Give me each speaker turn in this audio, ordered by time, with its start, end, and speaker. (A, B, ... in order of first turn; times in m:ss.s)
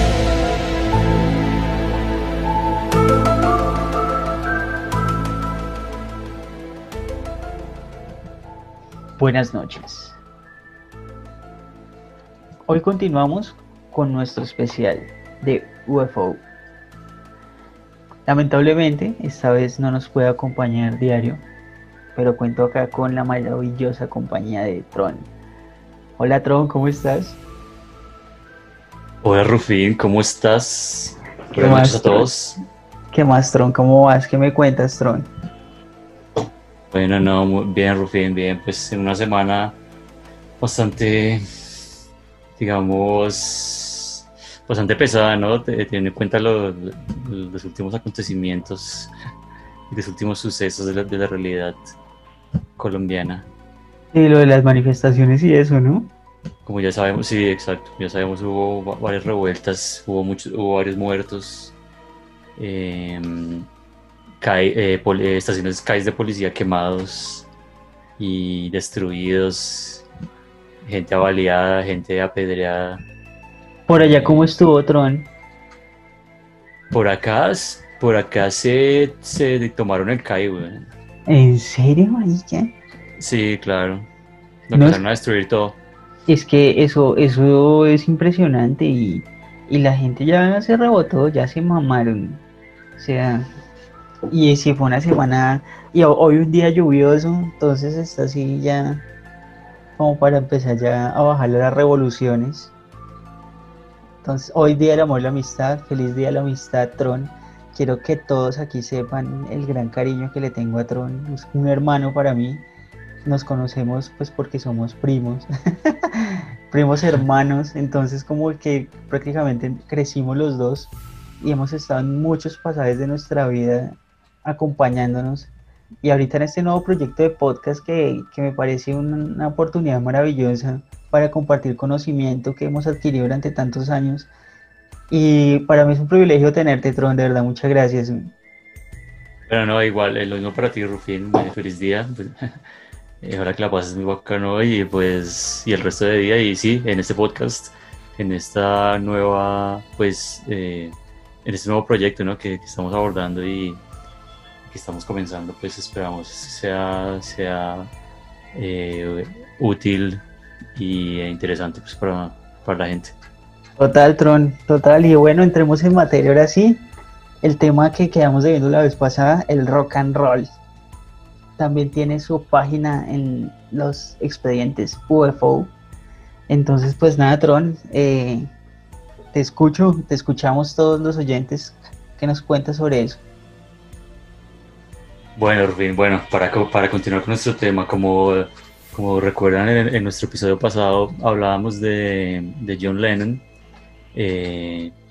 0:09.2-0:10.2 A
0:12.7-0:16.4 A
0:18.2-0:21.4 A
0:22.1-0:25.3 A
0:26.2-0:27.4 A
0:29.2-0:32.6 B
0:31.5-0:32.3 A
0:33.1-0:35.3 A
0:36.9-0:39.8 B
0:40.6-0:41.7 B
0:42.6-0:49.1 B
0:49.9-0:52.0 B
0:52.8-0:53.5 B
0:54.1-0:56.1 A
0:56.6-1:01.7 B
1:02.6-1:03.7 B
1:04.4-1:07.5 B
1:08.2-1:10.1 B
1:10.8-1:13.0 B
1:13.9-1:15.3 A
1:13.9-1:14.6 B
1:16.9-1:20.9 B
1:21.3-1:22.7 A
1:23.2-1:24.1 B
1:24.7-1:25.8 B
1:24.8-1:25.0 A
1:26.3-1:32.4 A
1:33.0-1:33.5 A
1:34.3-1:39.0 A
1:40.0-1:42.7 A
1:44.2-1:52.6 A
1:53.2-2:05.5 A
2:06.0-2:14.3 A
2:15.1-2:18.3 A
2:19.5-2:22.6 B
2:23.2-2:33.8 B
2:34.7-2:37.9 B
2:38.5-2:40.2 B
2:40.8-2:43.2 B
2:43.8-2:46.8 A
2:47.4-2:50.6 A
2:51.6-2:55.7 A
2:56.5-2:58.5 A
2:59.3-3:03.2 A
3:05.4-3:13.4 B
3:14.1-3:14.9 B